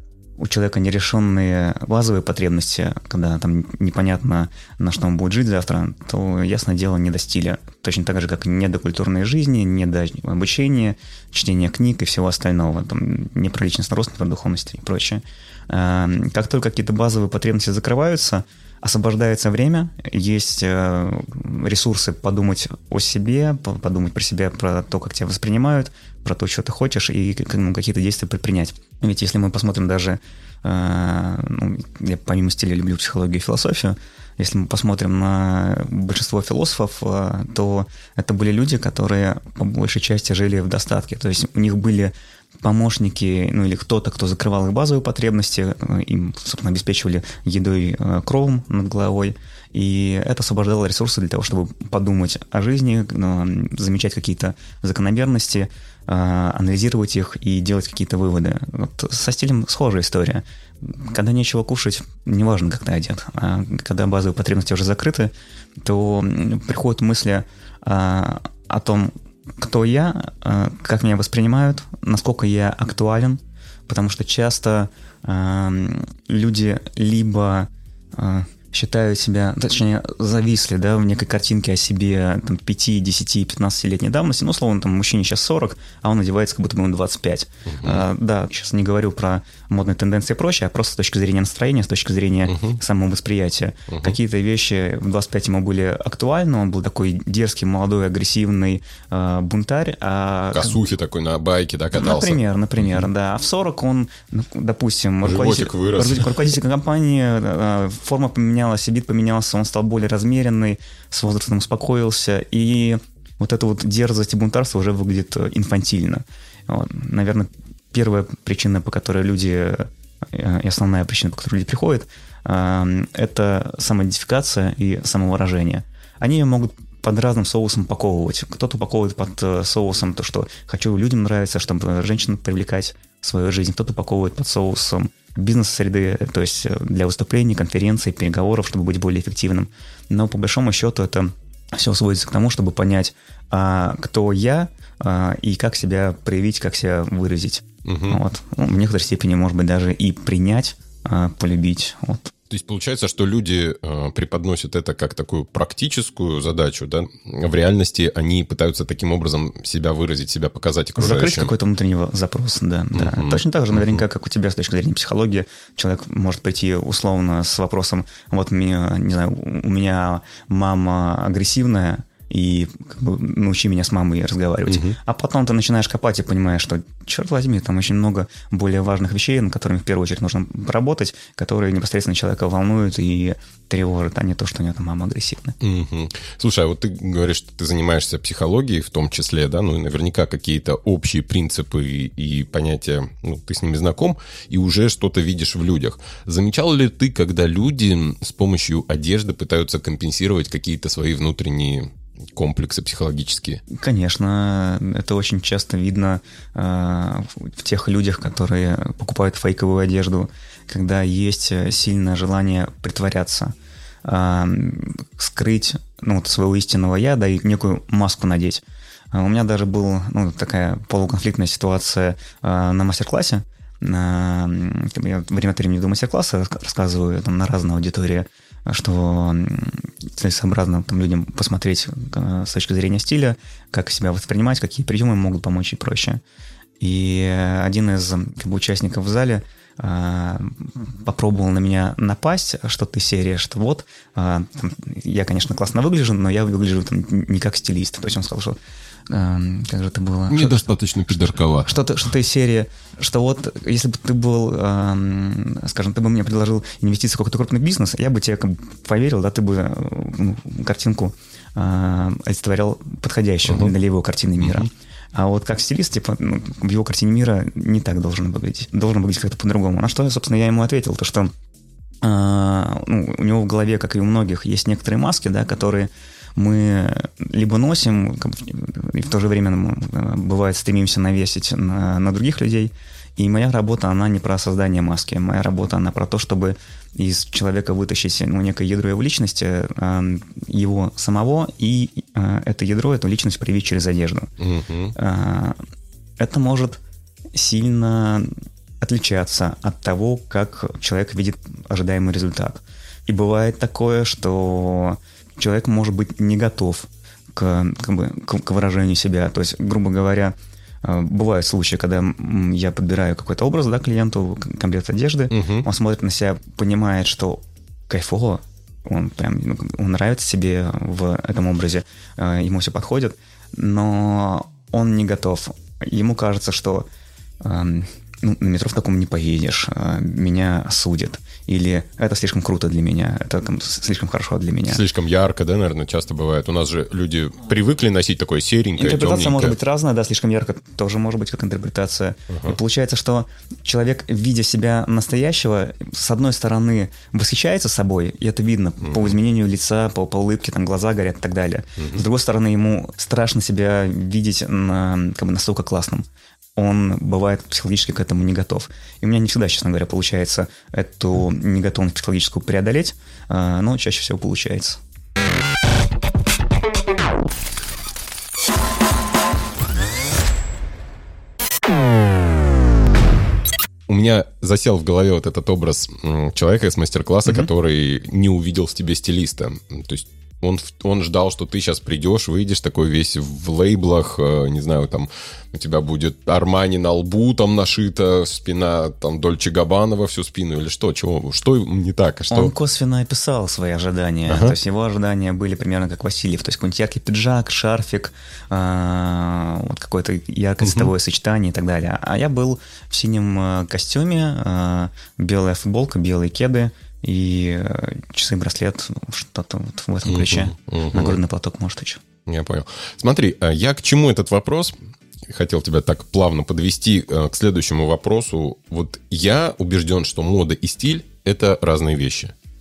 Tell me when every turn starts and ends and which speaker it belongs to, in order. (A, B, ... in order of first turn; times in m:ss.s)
0:00.4-1:40.8 A
1:27.6-1:28.0 B
1:32.5-1:32.8 B
1:33.9-1:34.2 B
1:40.5-1:43.0 B
1:41.9-2:32.3 A
1:45.2-1:46.4 B
2:27.8-2:28.2 B
2:32.5-2:41.5 B
2:41.0-3:05.6 A
2:42.9-2:44.0 B
2:54.7-2:55.0 B
3:05.6-3:23.6 B
3:23.7-3:56.2 A
3:56.8-4:10.8 A
4:10.3-4:11.8 B
4:11.6-4:31.3 A
4:23.5-4:23.7 B
4:24.4-4:24.7 B
4:32.0-4:54.3 A
4:54.4-4:54.9 B
4:55.0-4:55.6 A
4:56.2-4:56.8 A
4:57.3-5:26.9 A
5:15.3-5:15.7 B
5:27.4-5:34.8 A
5:34.6-5:39.6 B
5:38.8-5:56.0 A
5:42.3-5:42.6 B
5:48.8-5:49.1 B
5:51.8-5:52.0 B
5:56.6-6:04.8 A
6:13.9-6:32.5 B
6:32.3-6:52.0 A
6:34.3-6:34.5 B
6:40.6-6:40.9 B
6:50.0-6:51.2 B
6:52.2-6:54.7 B
6:55.3-7:02.3 B